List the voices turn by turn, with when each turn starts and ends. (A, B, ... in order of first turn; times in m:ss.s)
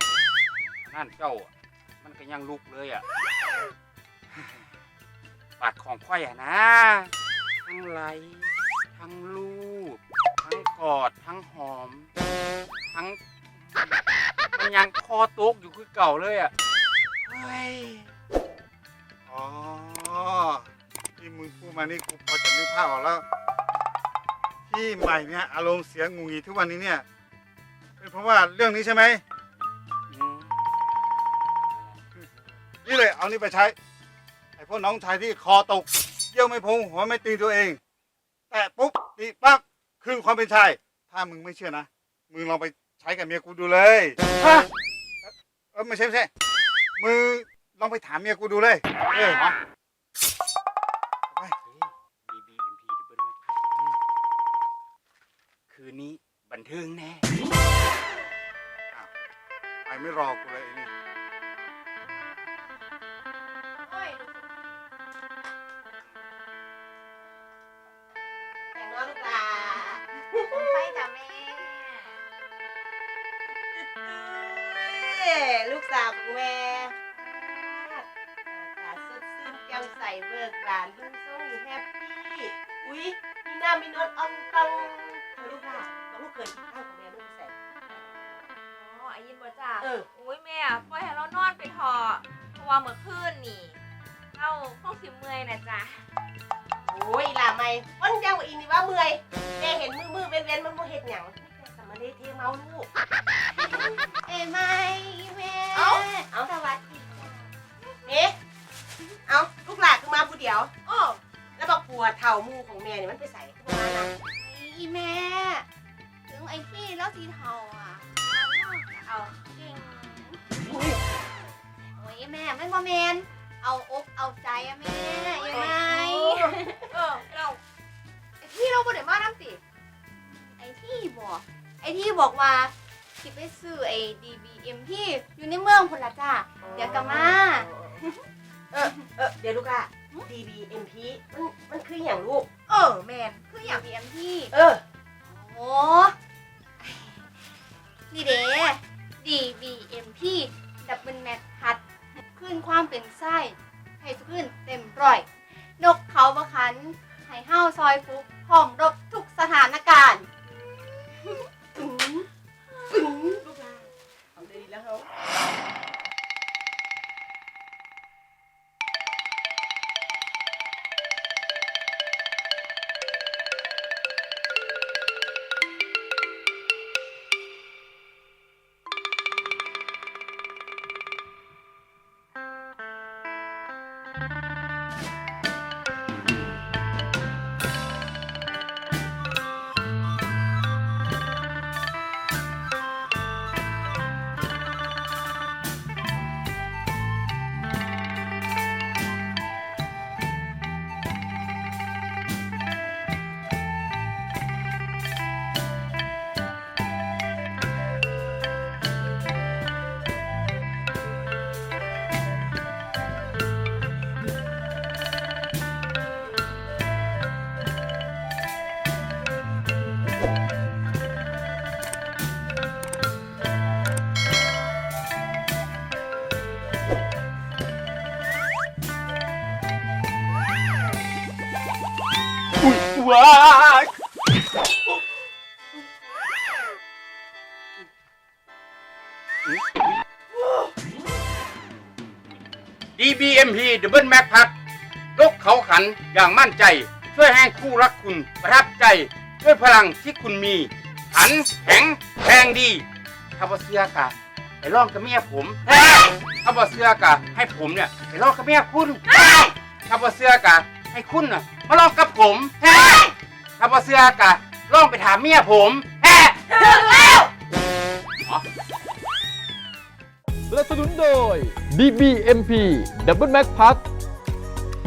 0:00.8-0:01.5 A
0:02.0-0:03.0 A
0:05.6-0:07.1 A
0:07.6-0:12.1 A
0:12.9-0:14.0 A
0:14.5-0:16.5 A
0:17.2-0:18.1 A
0:19.3-0:20.7 B
0:21.2-0:23.2 B
0:24.7-0:27.0 B
0:28.0-0:29.2 B
0:30.1-0:30.5 A
0:32.8-0:33.7 B
0:34.6-0:37.8 B
0:38.5-0:44.2 B
0:44.4-0:44.7 A
0:45.2-0:46.3 B
0:47.0-0:49.4 B
0:49.2-0:49.6 A
0:51.4-0:54.0 A
0:55.7-0:57.3 A
0:59.9-1:00.9 B
1:03.9-1:04.4 C
1:08.7-1:11.0 D
1:10.5-1:12.2 C
1:13.8-1:27.9 D
1:28.8-1:33.8 C
1:29.8-1:30.1 D
1:34.3-1:36.0 C
1:36.9-1:42.9 D
1:43.6-1:47.4 E
1:45.7-1:46.5 D
1:48.0-1:48.4 D
1:49.2-1:54.1 D
1:54.4-1:55.6 E
1:56.3-2:00.4 E
2:02.0-2:07.4 E
2:05.6-2:06.3 C
2:07.0-2:07.6 C
2:08.4-2:09.6 E
2:10.6-2:18.2 E
2:16.6-2:18.0 D
2:18.7-2:22.5 D
2:23.4-2:24.5 E
2:24.5-2:24.8 D
2:25.3-2:26.1 E
2:26.8-2:27.2 E
2:28.1-2:31.8 E
2:32.3-2:35.3 E
2:35.8-2:40.3 E
2:40.7-2:41.2 D
2:41.7-2:42.3 D
2:42.9-2:45.1 D
3:52.6-3:53.9 A
4:03.0-4:04.5 A
4:05.1-4:12.8 A
4:13.4-4:27.0 A
4:30.5-4:33.8 F